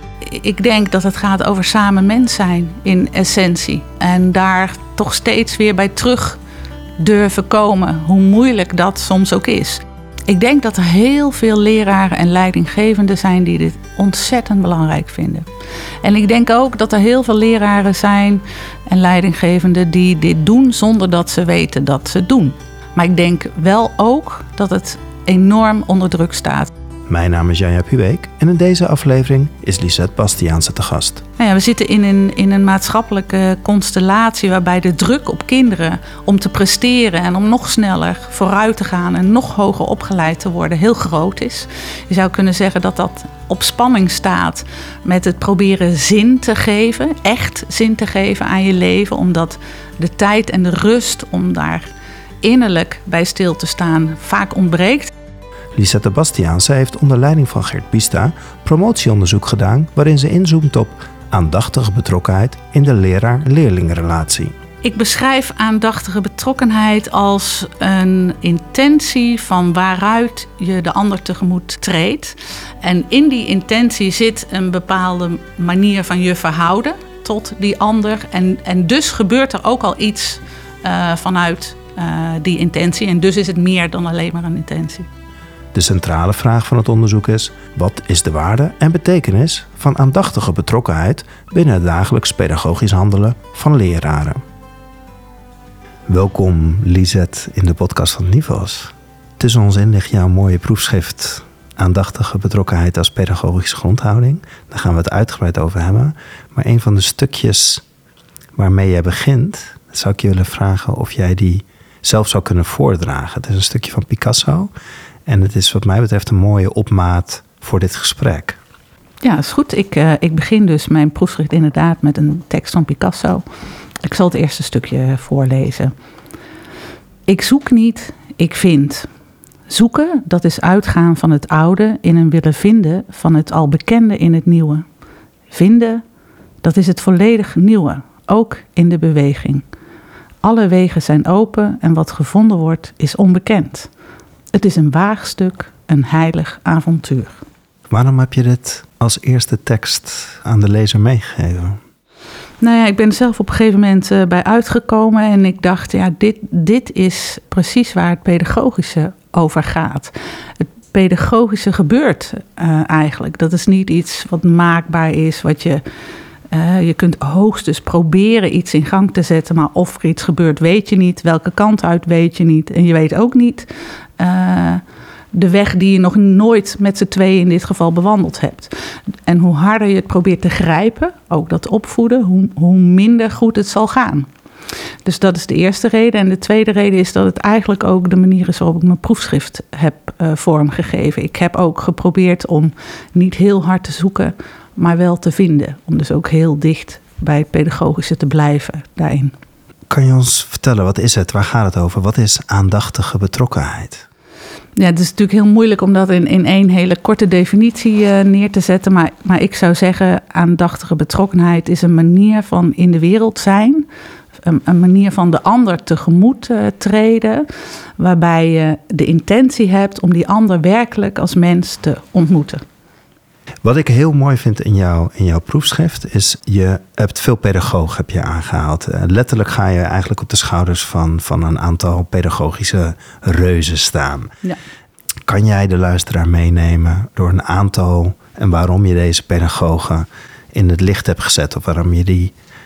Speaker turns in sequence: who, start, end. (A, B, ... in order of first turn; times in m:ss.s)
0:00.2-0:06.4 A
0:07.0-0:15.5 A
0:16.0-0:26.7 A
0:27.1-0:31.2 B
0:31.4-0:51.9 A
0:52.4-0:55.1 A
0:55.8-1:04.5 B
1:04.8-1:25.1 A
1:25.7-1:34.4 B
1:36.1-1:47.8 B
1:48.6-1:54.7 B
1:55.3-1:58.6 B
1:59.2-2:03.4 A
2:04.0-2:05.9 A
2:07.3-2:09.1 A
2:09.7-2:14.8 A
2:15.5-2:16.0 A
2:16.6-2:19.6 A
2:20.4-2:23.9 A
2:24.5-2:27.4 A
2:27.9-2:31.8 B
2:32.6-2:45.8 A
2:46.5-2:53.7 A
2:54.2-2:58.7 A
2:59.3-3:04.3 A
3:05.0-3:19.3 A
3:19.9-3:24.0 B
3:24.8-3:33.9 A
3:34.4-3:37.5 A
3:38.0-3:42.6 A
3:43.6-3:54.3 B
3:55.3-4:02.3 B